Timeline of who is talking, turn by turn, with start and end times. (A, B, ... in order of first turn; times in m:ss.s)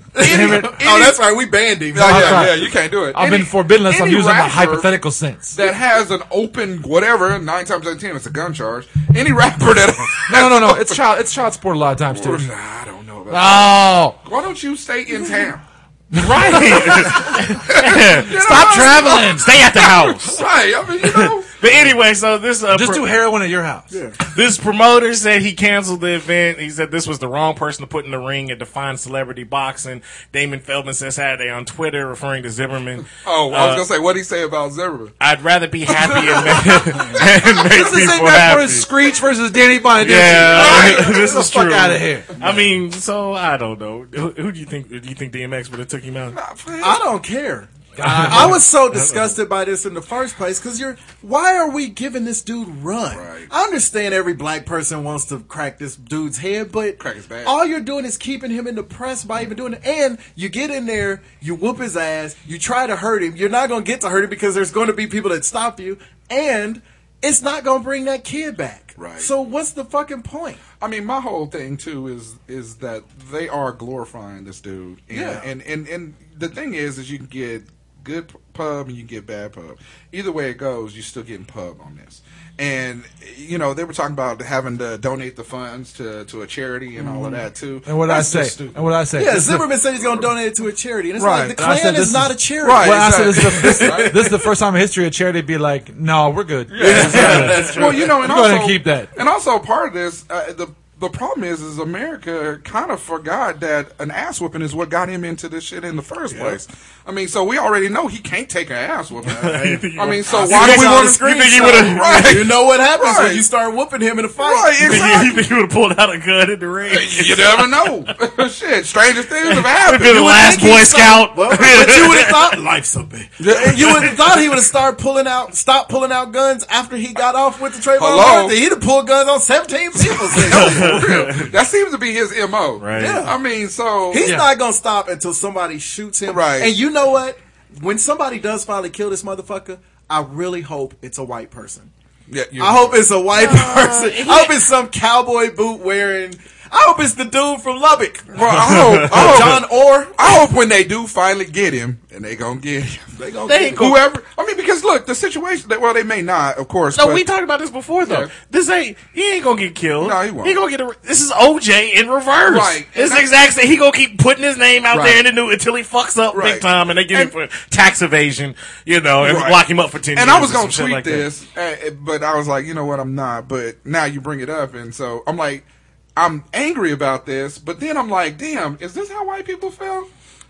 0:00.2-0:01.2 A
0:00.2-0:02.7 B
0:00.2-0:00.8 C
0:01.9-0:04.9 A
0:02.0-0:05.6 C
0:05.5-0:11.0 A
0:10.3-0:12.5 C
0:12.1-0:15.6 A
0:13.3-0:14.2 C
0:16.1-0:20.4 D
0:16.6-0:21.5 A
0:18.4-0:19.5 C
0:21.0-0:23.2 D
0:22.7-0:23.9 C
0:23.9-0:24.2 B
0:24.2-0:33.9 D
0:33.2-0:35.1 A
0:35.2-0:38.9 D
0:36.0-0:37.2 A
0:37.7-0:42.3 C
0:40.0-0:46.4 D
0:40.5-0:41.2 A
0:46.3-0:47.0 A
0:46.8-1:10.6 B
0:48.0-0:48.6 C
0:48.0-0:49.3 D
0:53.1-0:53.5 A
0:57.0-0:57.6 A
1:09.0-1:09.3 A
1:10.8-1:28.8 A
1:15.1-1:15.5 B
1:27.0-1:27.4 B
1:27.9-1:29.7 C
1:29.2-1:34.3 B
1:31.2-1:39.1 C
1:31.2-1:31.5 A
1:32.6-1:34.3 A
1:36.7-1:53.4 A
1:36.8-1:38.3 B
1:37.2-1:37.6 D
1:46.3-1:46.6 B
1:49.3-1:52.5 D
1:49.4-1:55.2 B
1:54.4-1:55.5 A
1:54.8-1:58.1 D
1:56.9-2:00.3 A
1:59.4-2:02.6 D
2:00.0-2:11.4 B
2:03.4-2:04.2 A
2:03.6-2:04.1 D
2:08.0-2:08.6 A
2:10.0-2:14.3 A
2:10.4-2:11.5 D
2:12.8-2:13.2 D
2:13.0-2:13.4 B
2:14.1-2:21.9 B
2:14.2-2:14.5 C
2:16.3-2:16.8 A
2:22.3-2:23.0 A
2:22.6-2:30.3 B
2:23.3-2:24.6 D
2:28.3-2:33.1 A
2:28.4-2:29.6 D
2:33.2-2:34.0 B
2:33.5-2:34.0 D
2:33.7-2:37.2 A
2:36.9-2:51.3 D
2:38.0-2:38.3 A
2:40.0-2:40.6 A
2:42.4-2:43.3 A
2:44.9-2:45.2 A
2:46.3-2:47.3 A
2:49.2-2:49.6 A
2:50.1-2:55.6 A
2:56.2-3:00.1 A